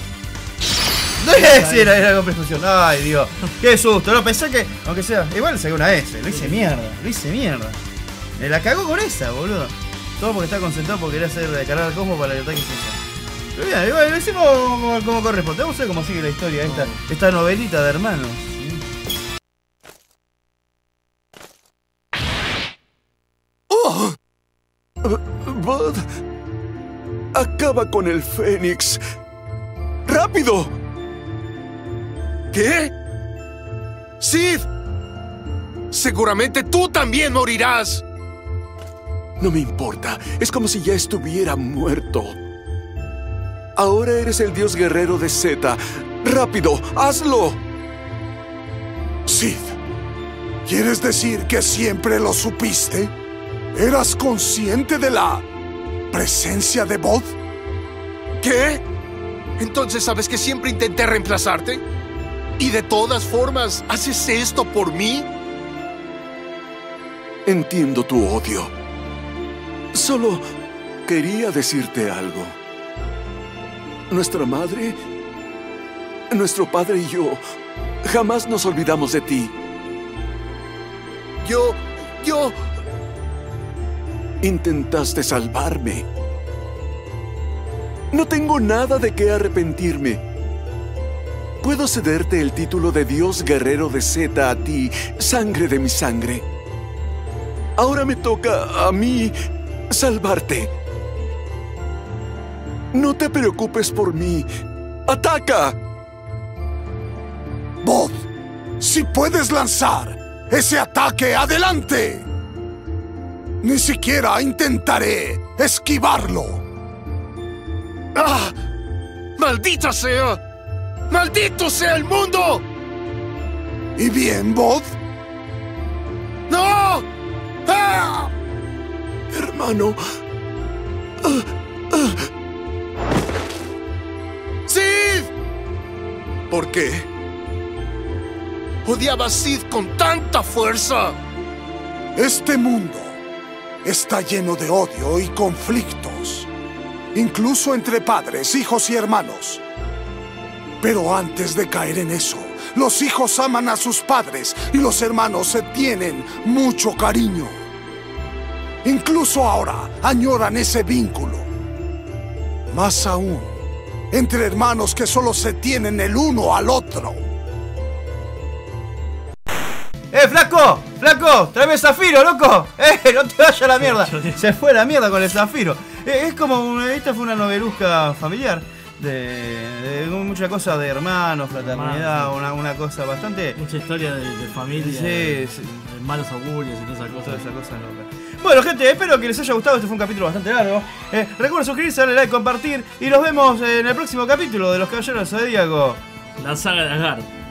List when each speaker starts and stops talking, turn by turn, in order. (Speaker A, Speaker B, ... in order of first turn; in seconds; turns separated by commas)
Speaker A: 1.2-7.8, Speaker B: 1.5-1.8, Speaker B: 6.3-6.8, Speaker A: 8.4-13.0, Speaker A: 13.5-18.7, Speaker C: 25.0-26.0, Speaker C: 27.3-29.0, Speaker C: 30.1-30.8, Speaker D: 32.5-32.9, Speaker D: 34.2-34.6, Speaker D: 35.9-38.0, Speaker C: 39.4-42.4, Speaker C: 43.8-47.6, Speaker E: 49.3-49.8, Speaker E: 50.6-53.1, Speaker E: 53.7-55.4, Speaker E: 56.1-57.4, Speaker D: 58.4-58.8, Speaker D: 59.6-61.8, Speaker D: 62.6-65.3, Speaker C: 67.5-68.7, Speaker C: 69.9-70.4, Speaker C: 71.1-72.6, Speaker C: 74.1-75.0, Speaker C: 76.3-77.4, Speaker C: 78.0-79.5, Speaker D: 81.4-82.5, Speaker C: 84.4-86.0, Speaker C: 88.1-90.2, Speaker C: 91.6-96.4, Speaker C: 97.8-99.3, Speaker C: 99.9-100.7, Speaker C: 102.9-104.5, Speaker C: 105.1-105.8, Speaker E: 107.8-108.3, Speaker E: 108.8-112.3, Speaker E: 113.6-116.6, Speaker D: 118.1-118.5, Speaker D: 119.4-120.4, Speaker D: 121.1-122.6, Speaker E: 124.0-124.9, Speaker D: 126.5-127.0, Speaker D: 127.7-128.3, Speaker C: 129.3-130.0, Speaker C: 131.2-132.2, Speaker D: 134.7-135.3, Speaker D: 136.5-137.1, Speaker D: 138.8-141.2, Speaker E: 142.2-143.2, Speaker E: 143.8-146.5, Speaker E: 147.1-149.6, Speaker E: 150.8-157.6, Speaker E: 158.8-161.5, Speaker E: 162.7-163.6, Speaker E: 164.1-167.2, Speaker A: 170.1-183.6, Speaker B: 173.8-174.4, Speaker B: 181.6-182.3, Speaker B: 183.6-187.4, Speaker A: 184.7-185.8, Speaker A: 187.1-196.0, Speaker B: 196.4-197.3